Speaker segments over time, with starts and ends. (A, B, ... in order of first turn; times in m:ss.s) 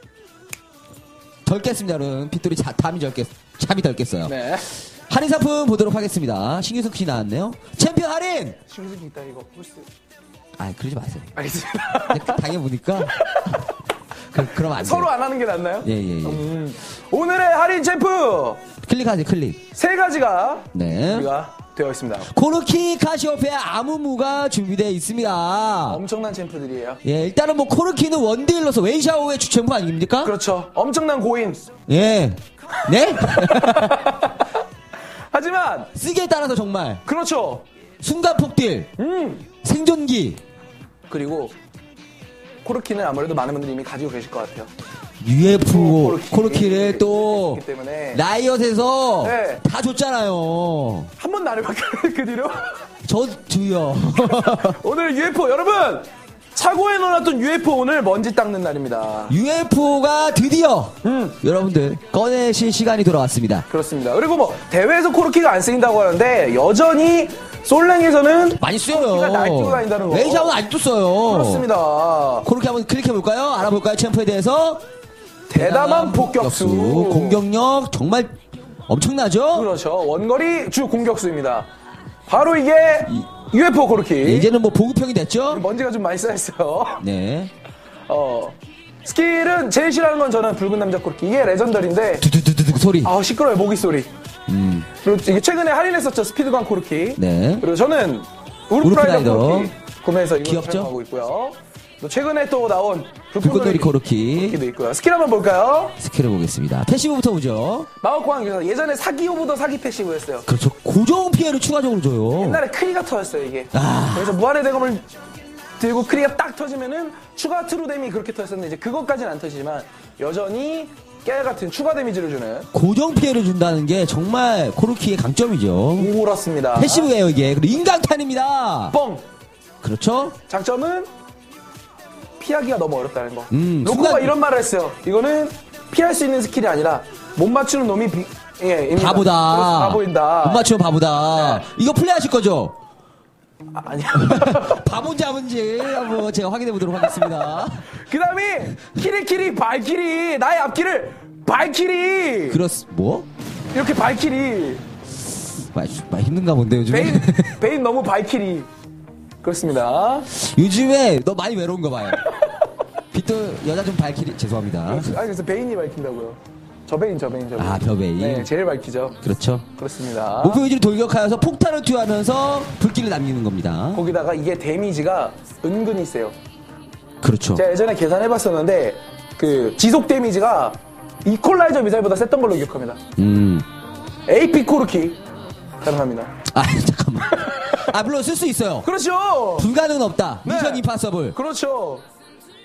0:01.4-0:04.4 A
0:04.2-0:04.7 B
0:05.0-0:08.6 A
0:08.7-0:09.9 B
0:10.6-0:11.4 A
0:11.4-0:12.4 B
0:12.1-0:13.2 A
0:13.2-0:13.6 B
0:14.3-0:15.1 A
0:14.6-0:18.6 B
0:15.8-0:16.4 A
0:18.8-0:19.7 A
0:19.7-0:22.3 B
0:20.7-0:21.3 A
0:22.3-0:26.0 A
0:25.9-0:27.0 B
0:27.0-0:30.4 A
0:30.2-0:31.7 B
0:31.9-0:34.1 A
0:33.2-0:34.5 B
0:35.3-0:35.9 B
0:36.0-0:37.0 A
0:37.0-0:37.6 B
0:38.0-0:38.9 A
0:39.0-0:39.5 B
0:39.6-0:40.4 A
0:41.1-0:41.6 B
0:42.6-0:44.7 B
0:45.2-0:51.1 A
0:45.7-0:48.2 B
0:49.2-0:49.6 B
0:51.2-0:52.7 B
0:53.0-0:54.8 A
0:54.3-0:59.4 B
0:59.3-1:03.7 A
1:01.0-1:01.4 B
1:03.7-1:10.6 B
1:08.6-1:11.7 A
1:11.2-1:12.5 B
1:12.4-1:14.8 A
1:15.5-1:17.4 B
1:15.6-1:19.7 A
1:19.5-1:21.7 B
1:22.3-1:24.5 B
1:24.2-1:25.6 A
1:25.5-1:27.0 B
1:27.0-1:27.5 A
1:28.1-1:32.3 B
1:32.2-1:33.1 A
1:33.0-1:34.1 B
1:34.5-1:34.9 A
1:35.0-1:46.0 B
1:37.2-1:37.7 A
1:38.8-1:39.7 A
1:40.4-1:40.9 A
1:43.4-1:44.6 A
1:46.0-1:47.9 A
1:48.0-1:50.5 B
1:50.5-1:52.6 A
1:52.4-1:55.1 B
1:53.7-1:54.4 A
1:55.8-2:02.7 B
2:02.7-2:06.1 A
2:06.0-2:07.1 B
2:06.8-2:09.0 A
2:08.9-2:09.2 B
2:09.8-2:10.4 A
2:10.5-2:11.1 B
2:12.4-2:20.7 B
2:13.5-2:14.3 A
2:18.9-2:22.8 A
2:21.4-2:21.6 B
2:23.7-2:24.8 B
2:24.2-2:27.9 A
2:27.9-2:32.6 B
2:32.5-2:33.3 A
2:33.7-2:34.8 B
2:35.6-2:37.6 A
2:36.9-2:38.7 B
2:39.4-2:40.3 B
2:40.3-2:42.2 A
2:43.1-2:45.2 A
2:44.9-2:49.2 B
2:47.6-2:48.5 A
2:49.2-2:49.7 A
2:49.8-2:50.6 B
2:50.4-2:54.0 A
2:53.9-2:56.4 B
2:57.2-2:57.6 A
2:57.6-3:03.0 B
3:03.2-3:03.7 A
3:04.3-3:05.2 B
3:05.8-3:06.4 B
3:06.5-3:08.9 A
3:07.3-3:07.9 B
3:08.8-3:09.7 B
3:09.6-3:11.4 A
3:10.4-3:12.0 B